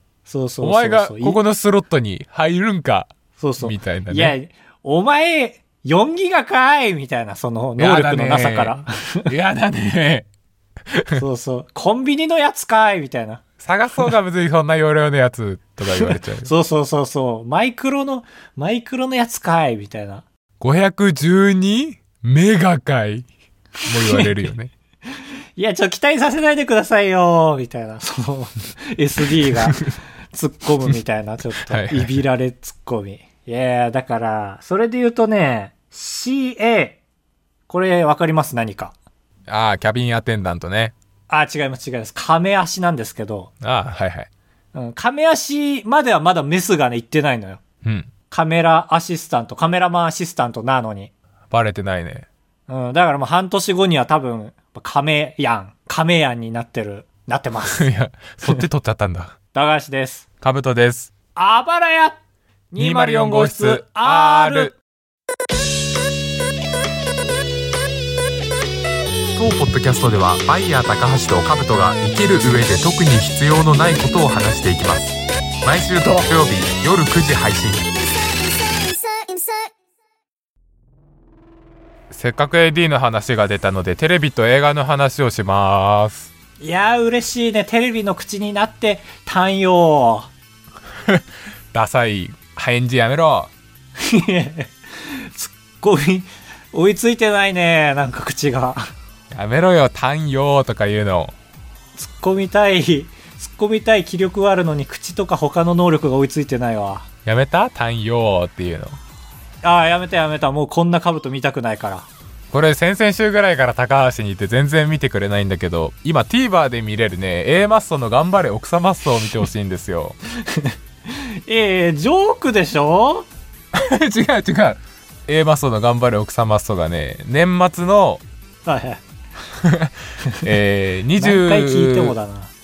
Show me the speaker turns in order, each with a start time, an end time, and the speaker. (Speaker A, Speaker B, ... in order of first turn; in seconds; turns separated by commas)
Speaker A: 0.3-1.4, Speaker B: 0.6-4.3, Speaker A: 3.4-9.3, Speaker B: 7.8-10.3, Speaker B: 10.9-11.2, Speaker A: 11.1-13.4, Speaker B: 13.6-16.5, Speaker A: 15.9-20.2, Speaker B: 20.6-23.2, Speaker A: 23.8-24.4, Speaker B: 23.9-24.7, Speaker A: 25.6-37.0, Speaker B: 31.7-32.1, Speaker A: 37.7-38.9, Speaker B: 39.5-40.9, Speaker A: 41.3-43.5, Speaker B: 43.6-44.3, Speaker A: 44.7-47.6, Speaker B: 47.8-48.1, Speaker A: 48.3-51.1, Speaker B: 51.5-52.3, Speaker A: 52.7-57.9, Speaker B: 57.7-59.3, Speaker A: 59.5-60.2, Speaker B: 60.4-61.1, Speaker A: 61.3-62.2, Speaker A: 62.7-64.8, Speaker B: 62.8-64.7, Speaker B: 69.3-78.0, Speaker B: 82.1-86.3, Speaker A: 86.6-90.3, Speaker B: 91.0-93.5, Speaker A: 94.0-98.9, Speaker B: 99.3-101.3, Speaker A: 102.0-107.0, Speaker B: 107.2-109.0, Speaker A: 109.6-112.1, Speaker B: 112.5-120.2, Speaker A: 120.5-123.3, Speaker B: 123.7-128.2, Speaker A: 128.6-129.0, Speaker B: 129.6-132.1, Speaker A: 131.2-132.5